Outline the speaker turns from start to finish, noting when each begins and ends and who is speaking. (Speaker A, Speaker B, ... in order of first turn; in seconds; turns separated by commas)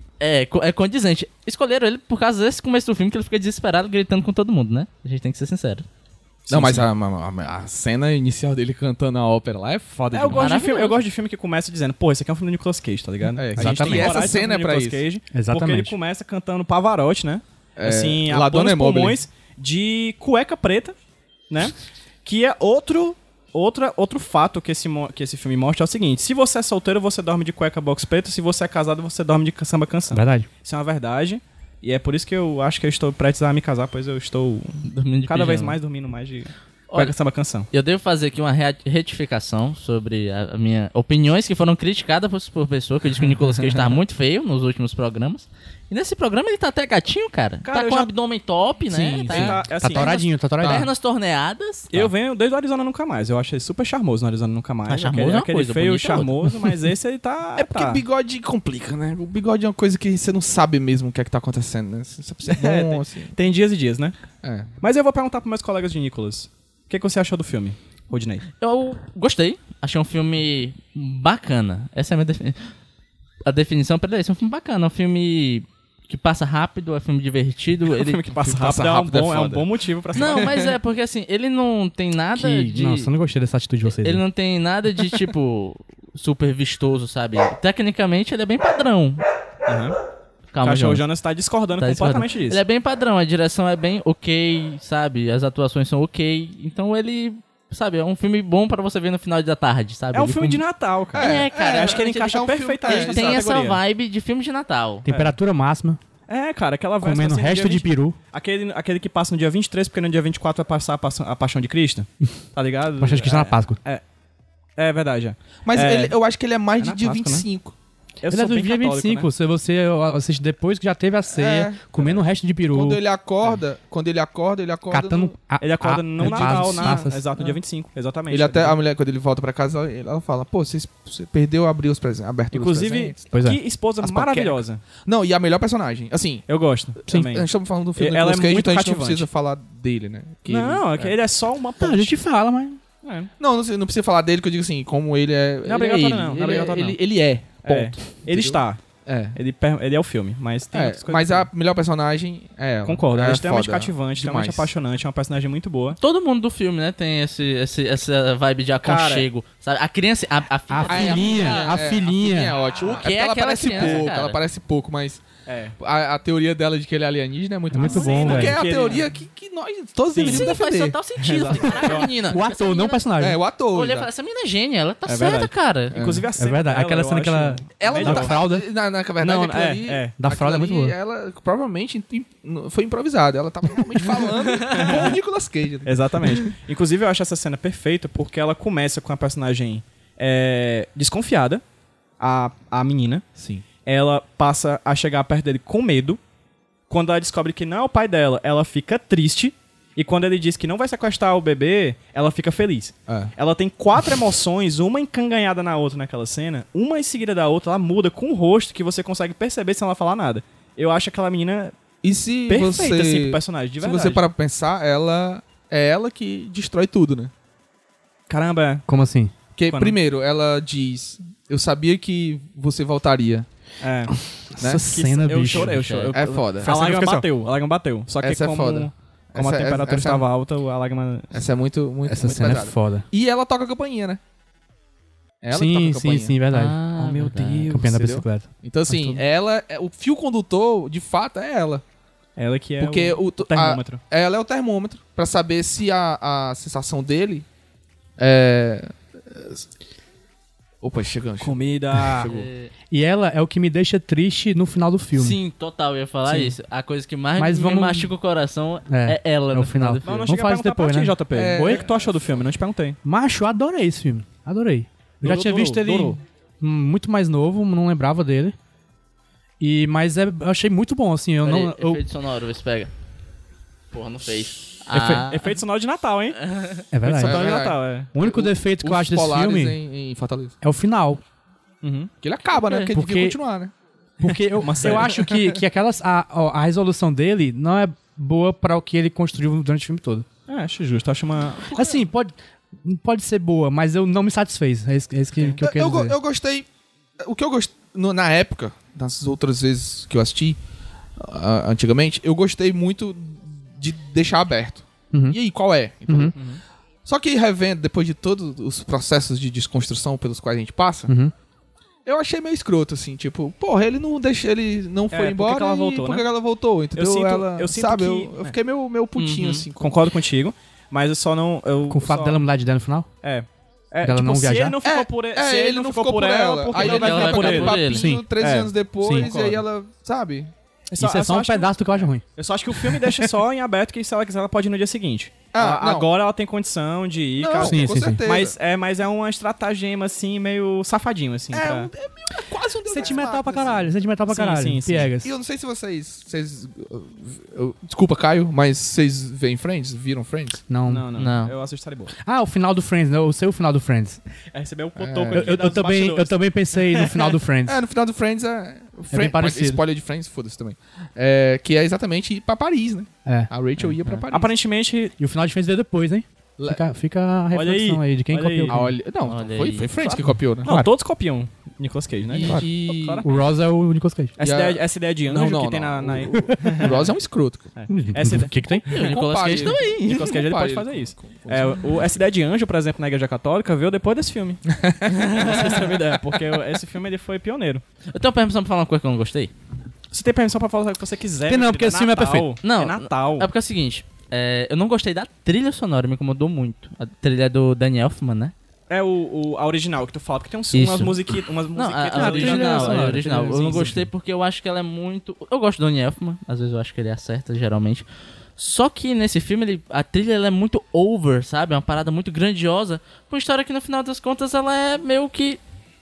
Speaker A: 0.2-5.8, Speaker B: 6.5-6.9, Speaker C: 6.5-10.4, Speaker B: 10.1-20.9, Speaker A: 10.3-11.0, Speaker C: 13.3-15.0, Speaker D: 13.6-14.2, Speaker D: 15.3-15.9, Speaker C: 17.8-19.2, Speaker B: 21.5-37.7, Speaker D: 30.1-30.5, Speaker A: 34.8-35.8, Speaker A: 36.9-37.1, Speaker A: 37.7-50.1, Speaker B: 47.6-48.1, Speaker C: 48.9-50.9, Speaker B: 49.2-50.2, Speaker D: 49.7-50.9, Speaker A: 50.6-51.9, Speaker B: 51.9-58.0, Speaker A: 54.9-56.5, Speaker C: 57.5-63.3, Speaker B: 62.5-64.1, Speaker C: 64.4-64.7, Speaker B: 64.8-68.4, Speaker A: 68.6-72.7, Speaker A: 73.5-78.2, Speaker B: 77.9-80.7, Speaker C: 78.4-80.5, Speaker A: 80.2-83.1, Speaker D: 82.3-84.2, Speaker A: 83.8-89.2, Speaker B: 89.7-90.0, Speaker A: 90.5-91.0, Speaker B: 90.6-92.6, Speaker A: 91.8-102.1, Speaker B: 100.1-103.8, Speaker C: 101.1-103.5, Speaker A: 102.8-105.0, Speaker D: 105.0-106.0, Speaker B: 105.1-105.3, Speaker B: 106.3-114.0, Speaker D: 107.0-108.2, Speaker D: 113.0-113.8, Speaker B: 114.8-116.2, Speaker C: 115.7-117.7, Speaker B: 116.8-117.5, Speaker B: 118.2-119.3, Speaker D: 118.3-123.0, Speaker C: 121.3-121.9, Speaker C: 122.7-125.3, Speaker D: 124.9-127.2, Speaker B: 125.6-128.8, Speaker C: 126.2-127.6, Speaker C: 128.3-133.3, Speaker B: 132.5-134.8, Speaker D: 133.3-133.6, Speaker C: 134.0-136.4, Speaker B: 136.5-139.3, Speaker C: 137.1-141.1, Speaker B: 140.5-142.1, Speaker D: 141.8-142.8, Speaker B: 143.0-143.3, Speaker C: 143.4-149.4, Speaker B: 145.6-147.0, Speaker B: 147.6-148.8, Speaker B: 149.3-151.5, Speaker C: 150.7-154.7, Speaker B: 152.8-156.0, Speaker A: 156.0-161.8, Speaker B: 158.8-159.3, Speaker D: 160.7-162.6, Speaker C: 160.9-165.2, Speaker A: 162.8-164.4, Speaker B: 163.7-164.0, Speaker B: 165.5-165.8, Speaker C: 165.8-171.0, Speaker D: 167.7-168.6, Speaker B: 167.8-169.1, Speaker A: 167.8-168.4, Speaker B: 170.1-170.5, Speaker A: 170.2-173.0, Speaker B: 171.2-172.1, Speaker D: 171.9-173.4, Speaker C: 173.2-174.1, Speaker A: 173.7-175.9, Speaker B: 175.1-178.4, Speaker C: 175.9-176.3, Speaker D: 176.3-178.7, Speaker C: 177.8-186.5, Speaker B: 179.2-180.2, Speaker D: 180.2-180.9, Speaker B: 184.2-185.2, Speaker B: 185.8-191.6, Speaker B: 192.2-193.2, Speaker C: 193.4-193.6, Speaker B: 193.8-196.2, Speaker B: 196.9-211.7, Speaker C: 212.0-217.3, Speaker B: 212.5-214.2, Speaker B: 218.3-218.8, Speaker D: 218.9-219.3, Speaker C: 219.6-223.5, Speaker B: 219.7-220.0, Speaker B: 223.8-224.2, Speaker D: 224.2-225.8, Speaker C: 224.6-224.8, Speaker B: 224.8-231.3, Speaker A: 225.5-226.1, Speaker C: 226.1-227.1, Speaker D: 226.6-227.2, Speaker C: 228.2-230.2, Speaker C: 231.3-234.2, Speaker D: 232.0-233.1, Speaker C: 235.4-236.4, Speaker D: 235.5-236.8, Speaker A: 236.5-237.7, Speaker B: 237.0-238.1, Speaker D: 237.7-239.2, Speaker C: 237.9-241.8, Speaker B: 242.4-244.0, Speaker C: 242.8-247.4, Speaker C: 248.2-249.7, Speaker C: 250.8-252.4, Speaker B: 251.4-252.4, Speaker A: 252.2-252.7, Speaker D: 252.9-255.4, Speaker A: 255.1-260.3, Speaker D: 256.3-256.5, Speaker D: 257.4-258.1, Speaker D: 258.9-261.8, Speaker B: 260.0-263.0, Speaker C: 261.3-262.4, Speaker D: 263.0-268.6, Speaker B: 265.2-266.2, Speaker D: 269.6-272.0, Speaker A: 271.4-272.9, Speaker A: 273.9-275.6, Speaker B: 274.9-276.4, Speaker A: 276.5-276.8, Speaker D: 276.9-279.8, Speaker B: 277.0-278.1, Speaker C: 277.2-280.5, Speaker D: 280.6-281.2, Speaker B: 281.8-282.1, Speaker C: 282.2-283.7, Speaker A: 282.6-282.9, Speaker D: 282.9-283.4, Speaker D: 284.2-290.2, Speaker B: 284.6-285.3, Speaker B: 290.5-291.9, Speaker D: 291.7-296.2, Speaker C: 295.6-296.7, Speaker C: 297.2-300.6, Speaker C: 301.2-306.4, Speaker D: 305.1-305.4, Speaker D: 306.1-306.3, Speaker B: 306.3-306.6, Speaker C: 307.0-311.1, Speaker D: 311.1-311.3, Speaker C: 312.0-319.9, Speaker B: 315.1-316.2, Speaker B: 316.9-318.5, Speaker A: 319.1-319.6, Speaker B: 319.8-322.4, Speaker D: 321.9-323.1, Speaker B: 323.2-329.6, Speaker D: 324.0-324.8, Speaker C: 324.8-330.5, Speaker A: 326.8-328.1, Speaker D: 327.9-328.3, Speaker D: 329.0-329.3, Speaker B: 330.9-341.9, Speaker D: 331.0-332.2, Speaker C: 335.5-336.1, Speaker C: 337.4-338.5, Speaker D: 337.6-338.2, Speaker C: 341.5-343.9, Speaker D: 342.9-345.3, Speaker B: 344.3-345.1, Speaker C: 345.2-350.6, Speaker D: 350.7-351.1, Speaker B: 350.9-352.1, Speaker A: 351.2-351.5, Speaker D: 352.2-354.2, Speaker B: 354.5-357.4, Speaker C: 355.0-355.8, Speaker D: 355.3-357.8, Speaker C: 357.6-364.5, Speaker D: 359.1-359.8, Speaker D: 363.2-363.5, Speaker B: 364.3-365.1, Speaker D: 365.2-368.9, Speaker B: 367.5-368.9, Speaker C: 368.7-370.7, Speaker A: 369.2-369.9, Speaker B: 370.6-373.3, Speaker D: 370.6-370.9, Speaker C: 372.3-373.3, Speaker D: 373.2-374.3, Speaker B: 374.4-377.1, Speaker C: 374.4-377.7, Speaker B: 377.7-378.8, Speaker D: 377.9-378.9, Speaker A: 378.9-380.4, Speaker C: 378.9-381.8, Speaker B: 379.6-387.8, Speaker C: 384.8-385.3, Speaker A: 388.1-389.5, Speaker B: 390.1-393.5, Speaker D: 391.5-392.5, Speaker A: 392.6-398.5, Speaker B: 398.9-404.1, Speaker A: 400.7-401.2, Speaker A: 401.7-408.0, Speaker D: 402.1-404.0, Speaker A: 408.6-415.6